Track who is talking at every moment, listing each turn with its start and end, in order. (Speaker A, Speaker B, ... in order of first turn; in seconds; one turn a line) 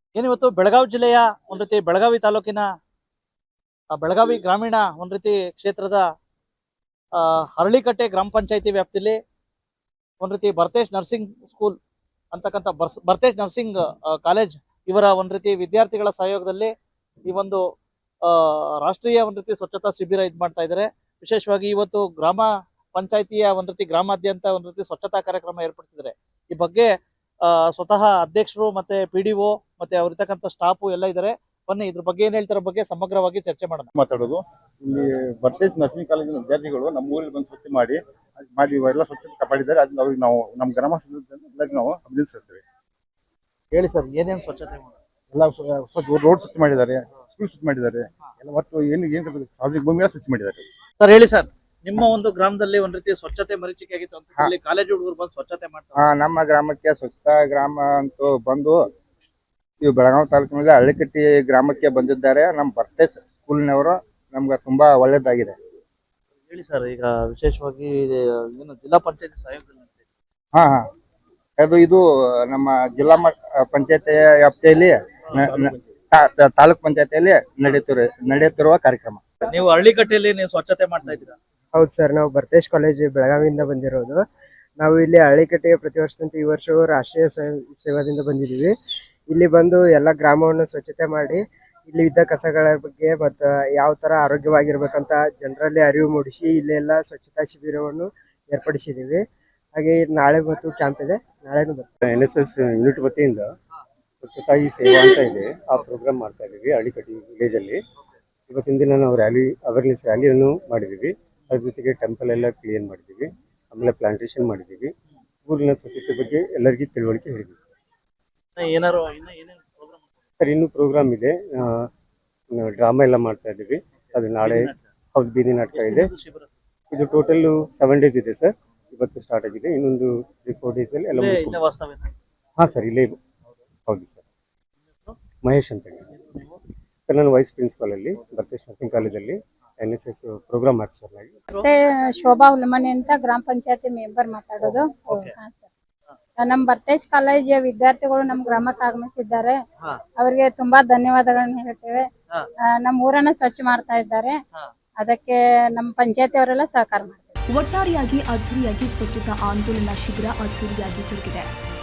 Speaker A: 0.1-2.7
Speaker A: 3.9-6.0
Speaker A: 7.2-9.2
Speaker A: 10.2-11.8
Speaker A: 12.3-16.7
Speaker A: 17.3-17.6
Speaker A: 18.2-26.9
Speaker A: 27.4-33.9
Speaker B: 34.0-42.6
Speaker A: 43.7-44.9
Speaker B: 45.3-50.6
Speaker A: 51.0-56.0
Speaker C: 56.0-58.8
Speaker C: 59.8-65.5
Speaker A: 66.5-70.0
Speaker C: 70.5-70.8
Speaker C: 71.6-79.2
Speaker A: 79.5-81.3
Speaker D: 81.7-84.2
Speaker D: 84.8-88.7
Speaker D: 89.3-99.2
Speaker D: 99.7-101.9
Speaker E: 102.0-103.5
Speaker E: 104.2-107.8
Speaker E: 108.5-114.9
Speaker E: 115.5-117.7
Speaker A: 118.6-120.0
Speaker E: 120.4-121.9
Speaker E: 122.5-126.1
Speaker A: 124.4-124.8
Speaker A: 125.7-126.5
Speaker E: 126.9-131.6
Speaker A: 131.1-132.1
Speaker E: 132.6-133.2
Speaker E: 133.9-134.2
Speaker E: 135.4-136.1
Speaker E: 137.1-141.3
Speaker F: 141.6-145.7
Speaker F: 146.4-149.6
Speaker F: 150.2-152.1
Speaker F: 152.8-154.4
Speaker F: 155.0-157.3
Speaker G: 157.5-161.5